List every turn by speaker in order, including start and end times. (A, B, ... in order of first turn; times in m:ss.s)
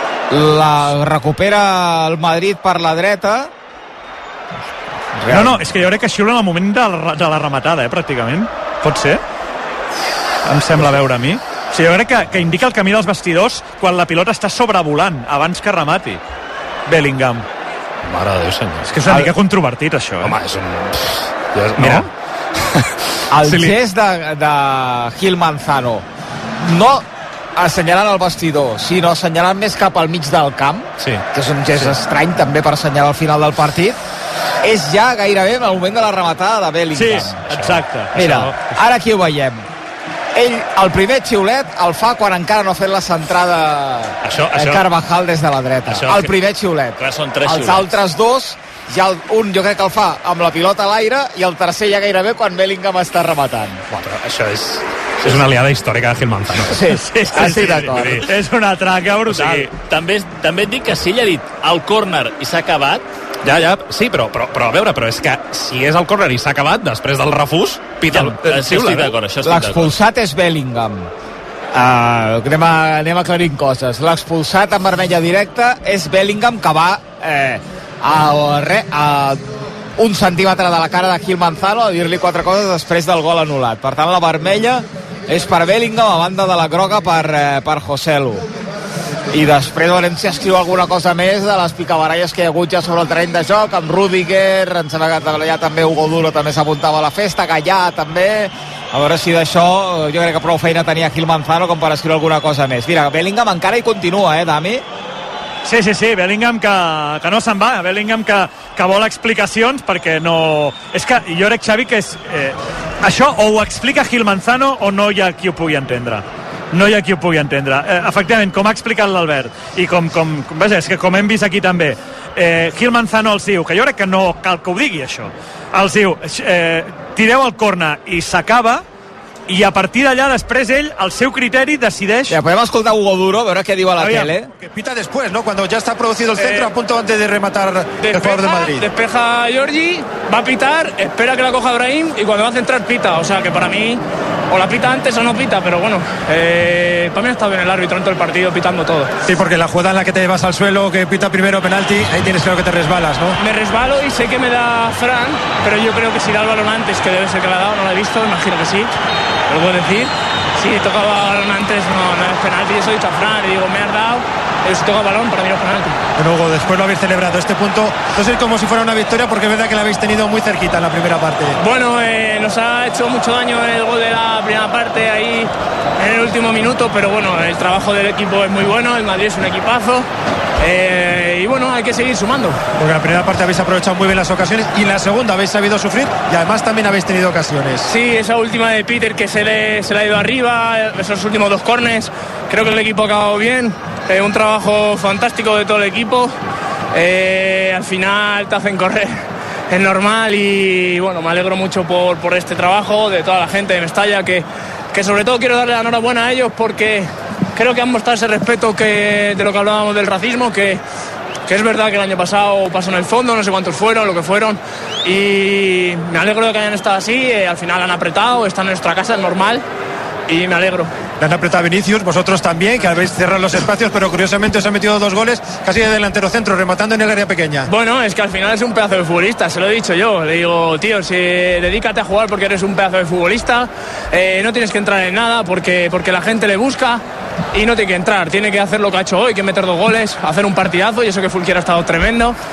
0:00.3-0:03.5 A
0:05.2-0:05.6 A
0:05.3-0:09.2 B
0:10.4-0:16.2 B
0:16.9-0:17.5 B
0:18.1-0:18.8 C
0:18.9-0:20.4 B
0:20.2-0:22.1 C
0:21.8-0:22.1 B
0:23.3-0:26.0 A
0:23.4-0:23.7 C
0:26.6-0:34.0 A
0:34.6-0:39.7 A
0:36.9-0:38.5 B
0:40.4-0:53.8 A
0:44.3-0:44.8 D
0:45.9-0:46.2 D
0:47.0-0:47.9 D
0:54.0-0:56.7 C
0:56.7-0:58.3 A
0:56.8-0:59.7 B
0:59.3-1:03.0 D
1:03.4-1:09.2 C
1:08.1-1:10.0 D
1:09.4-1:11.1 A
1:11.7-1:19.4 A
1:20.0-1:28.4 A
1:29.3-1:44.8 A
1:45.6-2:08.8 B
2:09.5-2:12.4 B
2:12.3-2:14.5 A
2:14.0-2:14.3 B
2:14.6-2:18.9 E
2:16.4-2:16.6 B
2:18.0-2:29.1 F
2:29.2-2:33.4 E
2:33.4-2:38.9 F
2:39.5-2:46.0 F
2:46.2-2:51.6 E
2:51.6-3:00.1 F
3:00.6-3:02.6 F
3:02.8-3:07.9 E
3:07.8-3:16.3 F
3:16.9-3:30.8 F
3:31.5-3:39.6 F
3:40.3-3:40.9 F
3:41.2-3:47.7 E
3:47.7-3:57.0 F
3:57.5-4:02.4 F